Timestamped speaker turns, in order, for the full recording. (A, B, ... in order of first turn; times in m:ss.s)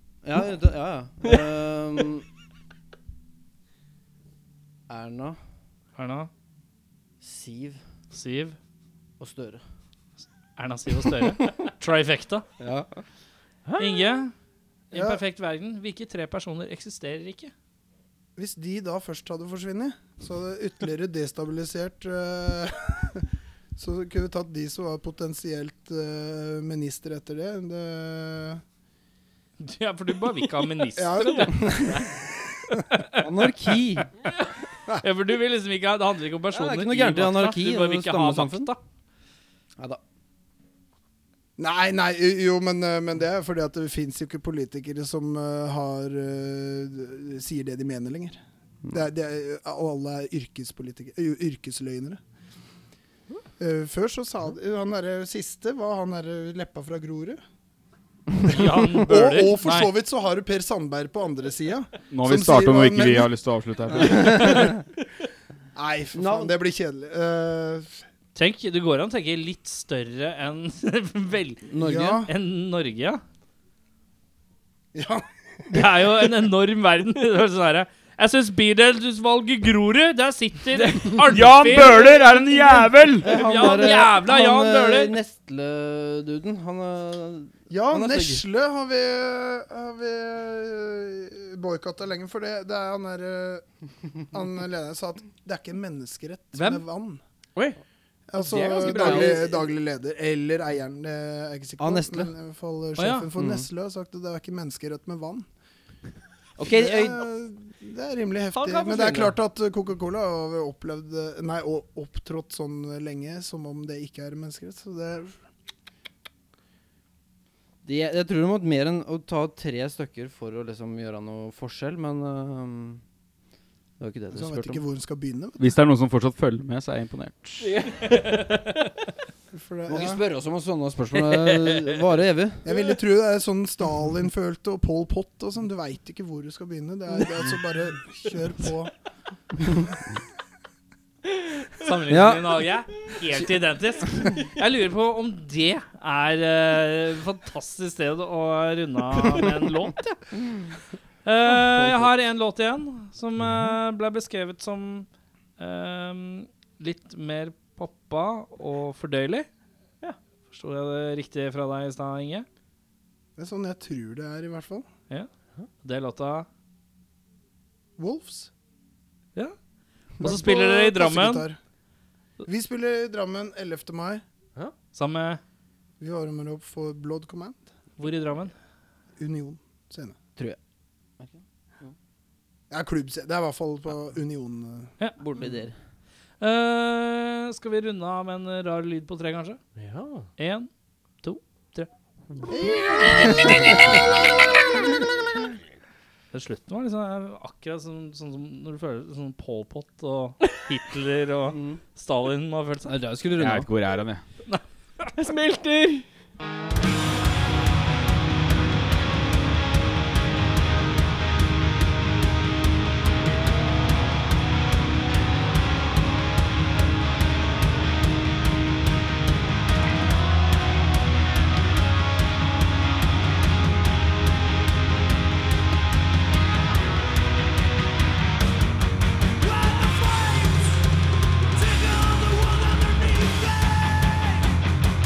0:00.2-0:02.2 A
0:04.9-0:05.4 A
0:06.0-0:06.3 B
0:07.2-0:07.8 A
0:08.1-0:08.6 B
0:09.2-0:09.6 A
0:10.6-0:12.4 B
0:12.6-0:12.9 A
0:13.6-0:14.1 C
0:13.8-0:14.3 B
0:14.9-0:17.5 B
0:14.9-0:15.2 D
0:18.4-0:28.6 D
0:29.6-0:31.6 B
0:31.0-0:33.0 D
0:31.2-0:32.0 C
0:31.4-0:32.0 A
0:32.9-0:33.3 B
0:33.1-0:34.1 A
0:34.0-0:38.8 B
0:36.5-0:38.7 A
0:41.6-0:48.4 D
0:48.9-0:52.2 D
0:53.6-0:57.4 D
0:58.4-1:03.3 D
0:58.4-0:59.9 B
1:02.1-1:04.7 E
1:03.9-1:04.8 D
1:04.3-1:04.6 A
1:05.7-1:08.0 D
1:06.1-1:06.5 A
1:08.3-1:11.6 B
1:11.7-1:12.2 A
1:11.8-1:12.3 D
1:12.3-1:13.2 B
1:14.9-1:15.2 D
1:15.7-1:22.2 B
1:21.1-1:23.4 E
1:21.7-1:22.2 D
1:23.2-1:28.4 A
1:23.2-1:25.2 B
1:27.7-1:33.7 D
1:34.2-1:37.2 D
1:36.5-1:36.8 B
1:38.3-1:45.4 D
1:38.4-1:39.7 C
1:38.9-1:39.5 A
1:41.8-1:42.3 A
1:43.0-1:43.3 B
1:43.4-1:43.7 A
1:46.6-1:47.2 A
1:46.6-1:55.4 D
1:48.5-1:49.4 C
1:57.8-2:03.0 A
2:04.0-2:04.8 A
2:04.3-2:05.7 D
2:05.6-2:07.8 E
2:07.6-2:08.9 C
2:08.0-2:08.6 B
2:09.5-2:10.2 D
2:09.9-2:12.6 A
2:11.2-2:12.0 C
2:12.6-2:18.9 D
2:19.6-2:20.1 D
2:21.8-2:30.3 B
2:22.1-2:22.6 A
2:31.2-2:39.5 B
2:31.5-2:32.1 C
2:40.5-2:42.4 B
2:43.4-2:44.9 D
2:45.8-2:46.5 B
2:48.0-2:48.5 D
2:50.2-2:51.4 B
2:50.2-2:51.6 D
2:52.4-2:54.2 D
2:54.9-2:55.4 B
2:56.0-2:57.6 D
2:58.0-2:58.5 B
2:59.2-3:00.2 D
3:01.2-3:01.9 A
3:02.7-3:04.9 D
3:05.2-3:05.7 A
3:06.4-3:09.6 B
3:09.8-3:10.3 C
3:10.4-3:10.7 B
3:11.2-3:11.9 B
3:12.5-3:13.9 D
3:12.9-3:14.0 B
3:13.2-3:13.6 A
3:16.3-3:23.0 B
3:21.5-3:21.8 A
3:22.8-3:23.7 A
3:23.4-3:24.2 E
3:25.2-3:26.1 C
3:50.1-3:50.8 B
3:52.2-3:53.7 B